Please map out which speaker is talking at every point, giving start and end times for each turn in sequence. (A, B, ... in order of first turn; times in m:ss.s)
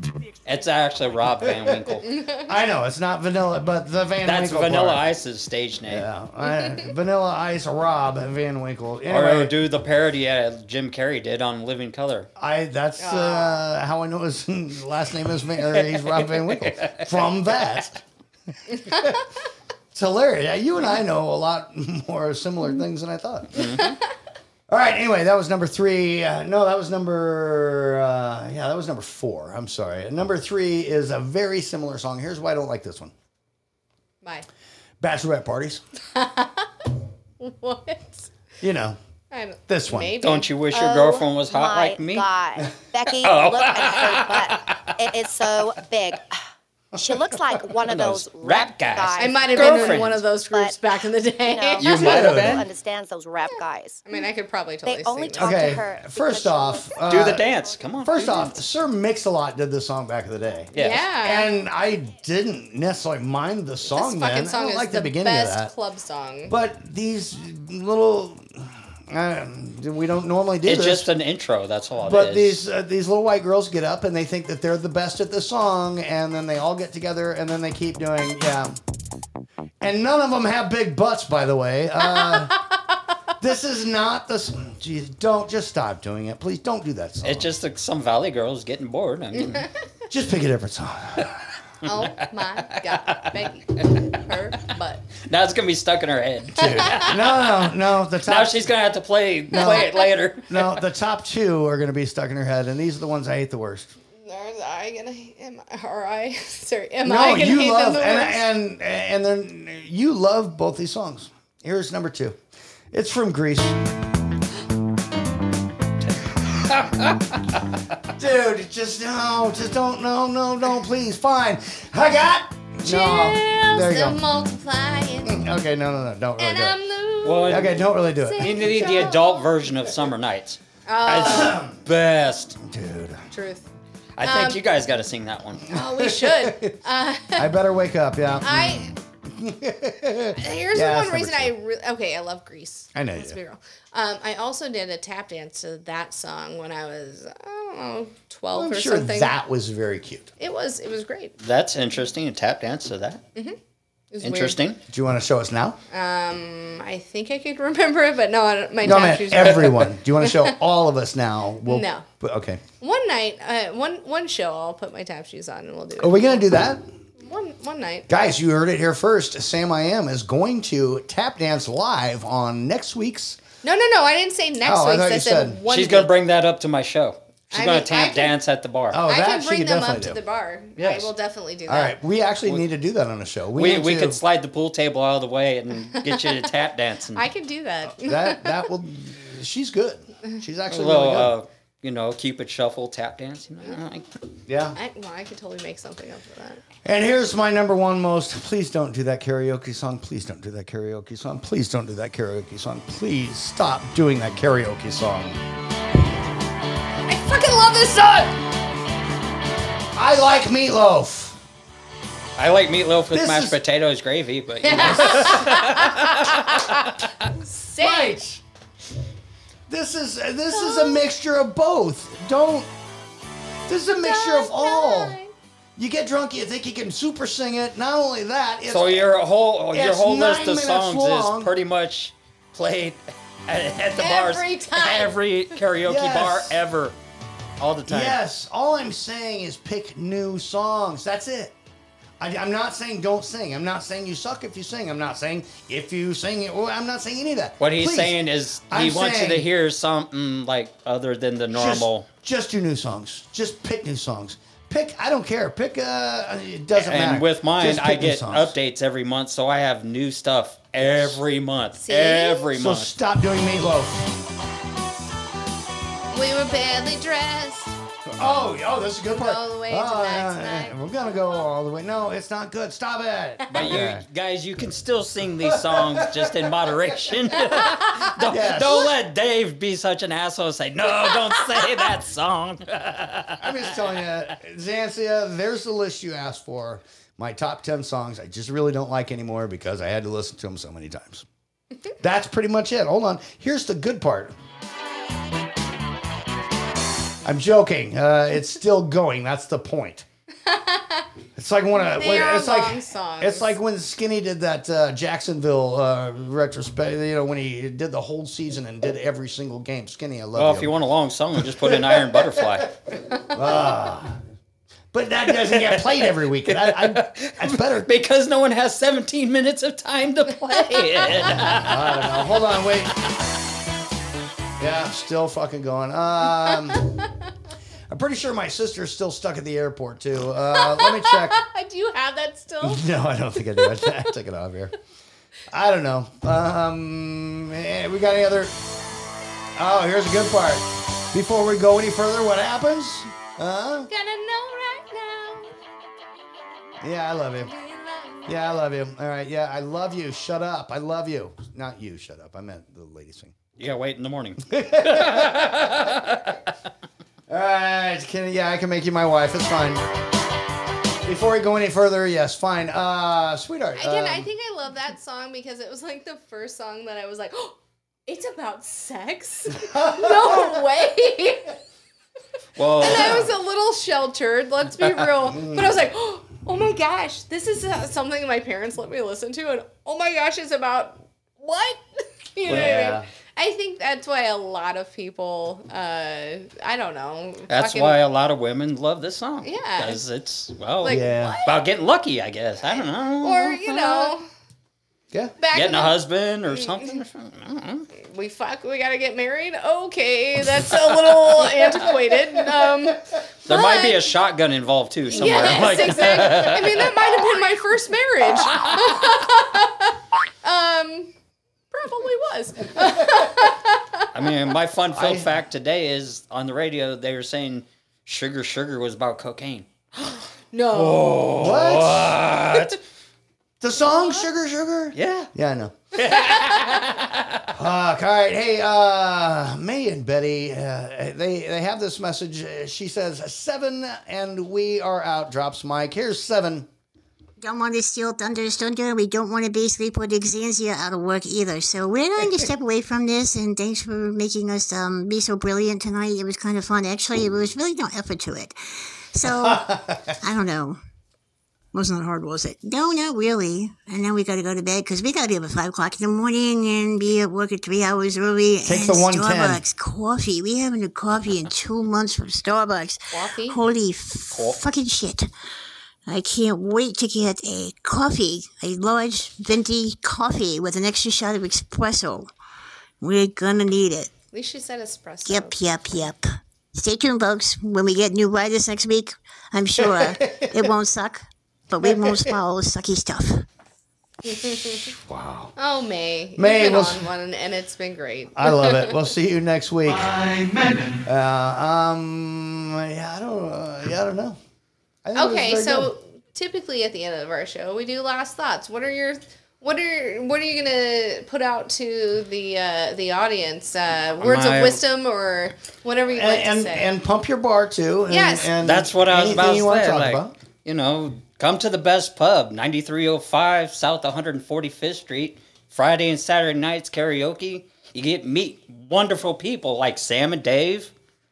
0:00.4-0:02.1 A
0:01.4-0:01.8 B
0:02.0-0:02.5 C
0:02.5-0:05.0 B
0:04.2-0:06.0 A
0:05.9-0:09.5 B
0:06.4-0:06.8 C
0:09.1-0:12.3 A
0:12.4-0:18.0 B
0:13.0-0:13.6 C
0:15.8-0:17.1 A
0:18.7-0:19.2 C
0:18.9-0:19.2 B
0:19.9-0:23.7 B
0:23.5-0:24.0 A
0:24.7-0:33.1 B
0:35.0-0:35.8 B
0:36.1-0:36.7 C
0:37.4-0:38.3 C
0:38.6-0:39.0 B
0:39.3-0:40.5 C
0:39.7-0:40.1 B
0:40.2-0:42.3 A
0:40.7-0:46.2 D
0:43.2-0:44.9 A
0:46.9-0:50.8 D
0:47.8-0:50.2 A
0:49.2-0:52.0 C
0:51.4-0:54.0 D
0:51.8-0:52.6 B
0:51.9-0:52.6 A
0:54.0-0:55.7 C
0:54.8-0:57.7 D
0:55.4-0:57.5 B
0:57.1-0:58.5 A
0:58.0-1:05.7 B
1:00.7-1:01.0 A
1:00.8-1:01.5 C
1:03.9-1:06.5 C
1:06.5-1:11.1 B
1:10.6-1:12.6 A
1:12.0-1:18.8 B
1:19.8-1:22.6 B
1:22.0-1:22.6 C
1:23.4-1:27.5 B
1:27.2-1:29.6 A
1:29.3-1:29.7 C
1:30.1-1:31.4 B
1:31.8-1:35.0 C
1:32.7-1:33.2 A
1:35.2-1:37.7 A
1:36.5-1:38.7 B
1:36.6-1:37.1 C
1:38.2-1:40.8 A
1:39.5-1:39.9 B
1:39.5-1:40.0 C
1:40.5-1:43.9 B
1:44.2-1:48.4 C
1:47.0-1:52.4 B
1:52.9-1:53.8 B
1:56.7-1:57.2 A
1:58.2-2:04.2 B
2:02.8-2:05.4 C
2:05.2-2:06.8 B
2:06.4-2:09.4 C
2:07.2-2:07.8 A
2:07.4-2:08.8 B
2:08.4-2:12.6 A
2:10.8-2:11.6 C
2:11.2-2:11.8 B
2:12.6-2:13.2 B
2:13.3-2:13.7 C
2:14.2-2:15.6 A
2:14.2-2:14.6 C
2:15.7-2:17.5 C
2:15.7-2:16.7 B
2:17.3-2:21.5 B
2:18.4-2:18.9 C
2:20.4-2:29.3 C
2:22.9-2:23.4 B
2:28.5-2:30.3 B
2:30.4-2:31.3 C
2:31.4-2:33.2 A
2:34.1-2:34.6 C
2:34.2-2:34.8 A
2:34.9-2:35.8 B
2:35.9-2:40.5 C
2:38.8-2:42.6 B
2:41.6-2:42.0 C
2:42.8-2:46.4 C
2:46.0-2:46.8 B
2:47.2-2:48.1 C
2:48.1-2:53.4 B
2:53.6-2:56.1 C
2:54.6-2:55.6 B
2:55.7-2:59.0 A
2:57.5-2:58.3 C
2:58.9-3:00.2 B
2:59.1-3:02.0 C
3:00.8-3:01.1 A
3:01.7-3:04.2 B
3:03.6-3:07.2 A
3:06.0-3:06.3 C
3:07.1-3:08.6 C
3:07.8-3:11.3 B
3:10.7-3:14.0 A
3:14.5-3:14.8 B
3:14.7-3:16.6 C
3:16.8-3:25.4 B
3:27.1-3:28.4 C
3:29.9-3:31.4 B
3:32.4-3:36.8 A
3:33.1-3:33.6 B
3:34.6-3:38.1 C
3:34.7-3:35.6 B
3:37.8-3:38.4 B
3:39.7-3:42.7 B
3:40.5-3:41.0 C
3:43.7-3:45.2 B
3:43.9-3:45.3 C
3:45.8-3:49.1 B
3:48.7-3:57.0 A
3:49.7-3:51.5 B
3:54.0-3:55.1 C
3:55.8-3:56.6 B
3:57.6-3:58.2 A
3:57.9-4:01.5 B
4:02.2-4:08.2 B
4:07.6-4:12.1 A
4:08.7-4:09.5 B
4:11.5-4:18.5 B
4:16.7-4:22.9 A
4:20.8-4:21.2 B
4:21.8-4:22.4 C
4:22.5-4:24.2 B
4:26.1-4:27.8 C
4:28.2-4:34.0 B
4:29.1-4:30.8 C
4:33.5-4:43.6 A
4:35.4-4:36.3 B
4:38.2-4:38.9 B
4:43.4-4:51.2 B
4:52.0-4:54.4 B
4:57.2-5:00.0 B
5:00.4-5:01.1 C
5:01.4-5:10.7 B
5:01.8-5:03.6 C
5:10.4-5:12.7 A
5:11.6-5:12.6 B
5:13.3-5:14.2 B
5:14.9-5:17.9 B
5:15.4-5:21.8 A
5:21.2-5:23.0 B
5:24.6-5:26.9 B
5:27.9-5:31.4 B
5:30.5-5:34.0 C
5:32.6-5:34.7 B
5:35.5-5:38.5 B
5:39.6-5:43.9 B
5:43.9-5:45.5 C
5:46.8-5:47.5 B
5:47.4-5:48.5 C
5:48.2-5:53.4 B
5:53.6-5:56.3 A
5:54.5-5:55.7 B
5:57.3-5:59.8 B
6:01.0-6:04.3 B
6:03.8-6:07.6 C
6:08.1-6:11.5 C
6:09.6-6:10.6 B
6:12.6-6:13.3 A
6:12.8-6:28.0 C
6:12.9-6:13.2 B
6:15.2-6:15.8 B
6:22.4-6:23.0 B
6:22.5-6:22.9 A
6:27.5-6:34.1 A
6:29.4-6:30.0 C
6:30.8-6:31.6 C
6:30.8-6:31.4 B
6:32.6-6:34.3 C
6:35.4-6:35.9 C
6:35.5-6:37.9 A
6:36.5-6:36.9 C
6:38.0-6:44.0 C
6:43.4-6:47.2 A
6:45.1-6:51.1 C
6:45.2-6:45.6 B
6:48.5-6:48.9 A
6:51.7-6:54.1 C
6:52.8-6:53.3 B
6:54.1-6:59.7 A
6:54.9-6:55.3 B
7:00.0-7:01.3 C
7:00.7-7:02.8 A
7:01.3-7:02.2 B
7:03.6-7:05.7 B
7:04.9-7:05.3 A
7:05.9-7:07.5 A
7:07.5-7:16.7 B
7:17.4-7:28.6 E
7:29.1-7:29.7 E
7:29.2-7:30.1 B
7:30.2-7:30.8 E
7:31.7-7:45.3 E
7:38.6-7:39.6 B
7:43.1-7:43.6 C
7:44.3-7:44.6 A
7:46.1-7:52.3 E
7:53.0-7:54.1 E
7:54.3-7:55.6 C
7:55.2-8:03.4 E
7:59.8-8:00.7 B
8:01.8-8:02.3 B
8:04.3-8:04.9 C
8:04.7-8:05.5 B
8:05.6-8:09.0 C
8:06.4-8:07.1 B
8:08.3-8:14.4 B
8:15.0-8:15.9 B
8:15.1-8:26.9 C
8:24.2-8:24.8 A
8:26.1-8:30.3 B
8:28.1-8:28.5 C
8:28.6-8:40.9 A